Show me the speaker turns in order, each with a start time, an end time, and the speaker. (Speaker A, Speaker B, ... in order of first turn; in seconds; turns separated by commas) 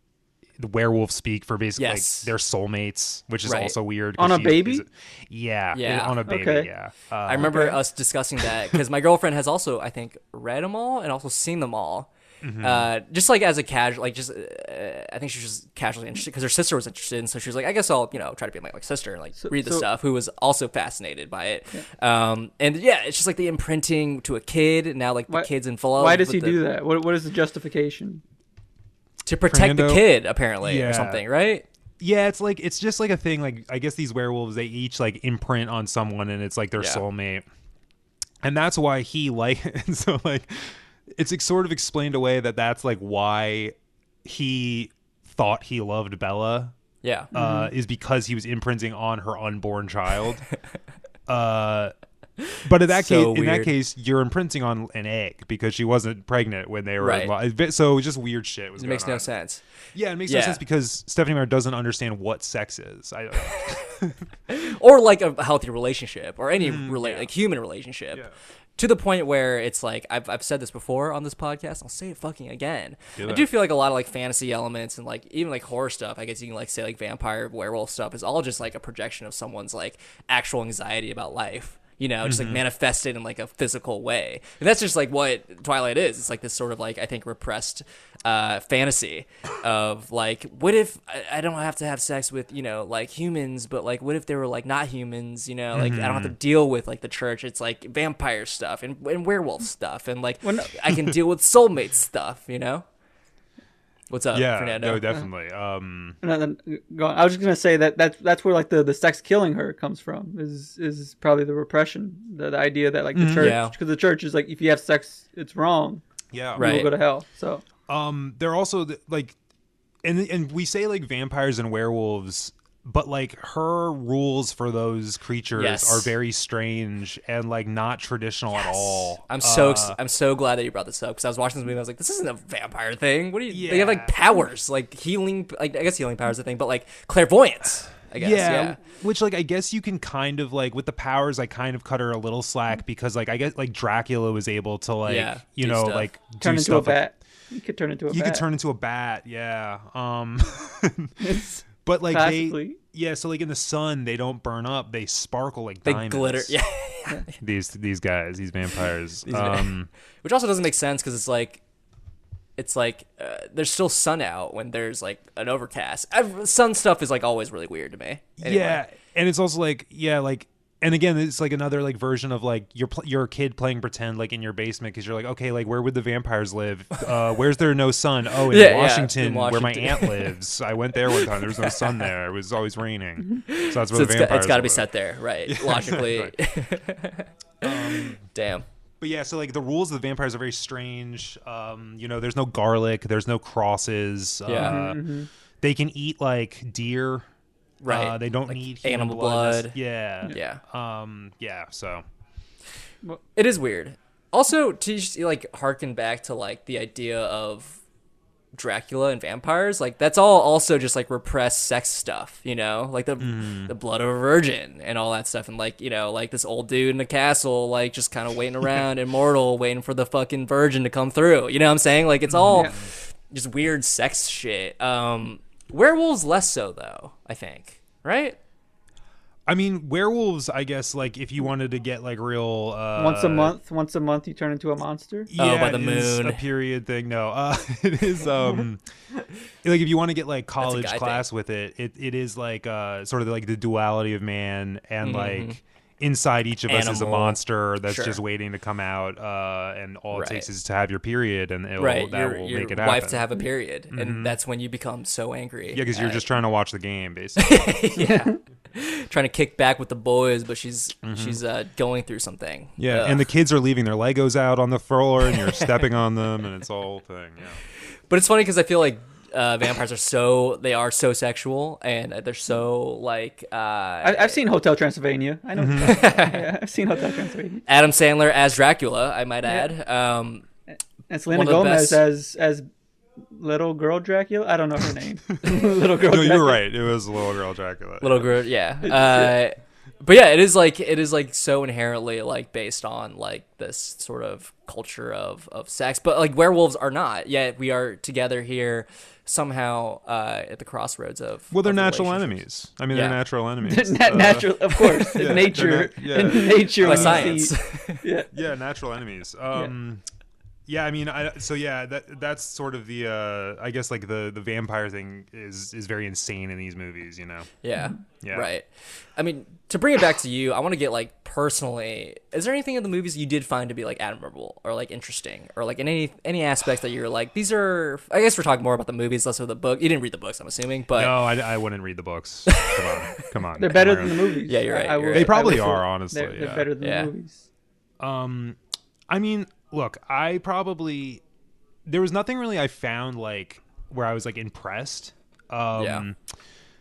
Speaker A: 0.6-7.8, Speaker B: 1.8-2.3, Speaker B: 3.4-3.8, Speaker C: 4.2-4.8, Speaker B: 5.7-6.2, Speaker C: 6.3-6.7, Speaker B: 7.3-12.1, Speaker C: 7.4-7.8, Speaker A: 12.4-12.9, Speaker B: 12.6-26.6, Speaker C: 19.4-19.9, Speaker C: 25.3-28.2, Speaker B: 29.3-31.6, Speaker A: 29.5-31.2, Speaker A: 32.0-37.5, Speaker B: 36.8-37.0, Speaker A: 38.4-46.7, Speaker B: 47.0-47.3, Speaker C: 47.3-47.7, Speaker A: 47.3-50.5, Speaker A: 51.3-51.9, Speaker A: 52.6-59.3, Speaker B: 52.9-53.7, Speaker B: 57.0-57.3, Speaker B: 58.8-59.6, Speaker A: 59.9-64.2, Speaker B: 60.3-60.6, Speaker B: 64.5-68.3, Speaker A: 66.6-67.3, Speaker B: 68.8-102.8, Speaker A: 73.2-73.5, Speaker A: 82.2-82.6, Speaker A: 95.7-96.4, Speaker C: 100.4-100.7, Speaker A: 100.9-101.1, Speaker B: 104.1-105.1, Speaker A: 104.3-106.2, Speaker C: 106.2-116.0, Speaker A: 113.1-113.6, Speaker B: 113.3-113.8, Speaker A: 116.3-116.8, Speaker C: 116.5-117.6, Speaker B: 116.6-116.9, Speaker A: 117.9-119.4, Speaker A: 120.0-130.0, Speaker B: 125.5-126.1, Speaker B: 128.6-138.8, Speaker A: 133.5-134.2, Speaker A: 138.2-147.1, Speaker B: 145.1-146.1, Speaker C: 146.4-148.4, Speaker A: 148.1-156.6, Speaker C: 151.2-152.8, Speaker B: 155.8-157.3, Speaker A: 157.4-159.9, Speaker B: 159.2-161.6, Speaker B: 162.6-168.8, Speaker A: 168.4-184.9, Speaker B: 178.5-180.3, Speaker B: 181.3-182.1, Speaker B: 183.4-188.7, Speaker A: 185.5-186.3, Speaker A: 187.6-188.2, Speaker A: 189.0-195.0, Speaker B: 194.5-194.8, Speaker C: 194.6-195.3, Speaker A: 195.6-197.3, Speaker B: 197.8-200.6, Speaker A: 197.9-202.0, Speaker B: 203.3-207.8, Speaker B: 208.5-228.4, Speaker A: 213.2-213.7, Speaker A: 222.3-222.9, Speaker A: 229.5-233.6, Speaker C: 233.0-235.3, Speaker A: 235.3-238.9, Speaker B: 235.4-236.4, Speaker A: 239.6-253.3, Speaker B: 240.6-241.3, Speaker B: 245.0-245.6, Speaker B: 246.7-248.2, Speaker B: 250.1-250.5, Speaker B: 251.8-256.3, Speaker A: 253.9-254.4, Speaker A: 255.7-257.8, Speaker B: 257.4-263.3, Speaker A: 261.0-261.4, Speaker A: 262.8-267.6, Speaker B: 268.1-274.4, Speaker C: 274.0-277.6, Speaker A: 275.6-276.1, Speaker B: 275.8-276.5, Speaker B: 277.7-280.5, Speaker C: 281.1-282.7, Speaker B: 281.3-282.0, Speaker C: 283.3-286.6, Speaker A: 285.5-288.4, Speaker B: 288.0-303.2, Speaker C: 288.9-289.4, Speaker A: 301.5-307.5, Speaker C: 303.6-308.3, Speaker B: 304.9-305.5, Speaker B: 306.2-308.1, Speaker A: 308.3-310.0, Speaker A: 310.7-317.5, Speaker B: 317.6-331.2, Speaker A: 318.2-318.5, Speaker A: 330.9-334.4, Speaker B: 332.5-333.2, Speaker C: 333.6-337.5, Speaker B: 334.4-335.8, Speaker A: 335.1-336.7, Speaker B: 336.4-337.1, Speaker A: 338.0-338.6, Speaker A: 339.1-341.2, Speaker A: 341.9-346.2, Speaker B: 345.8-346.1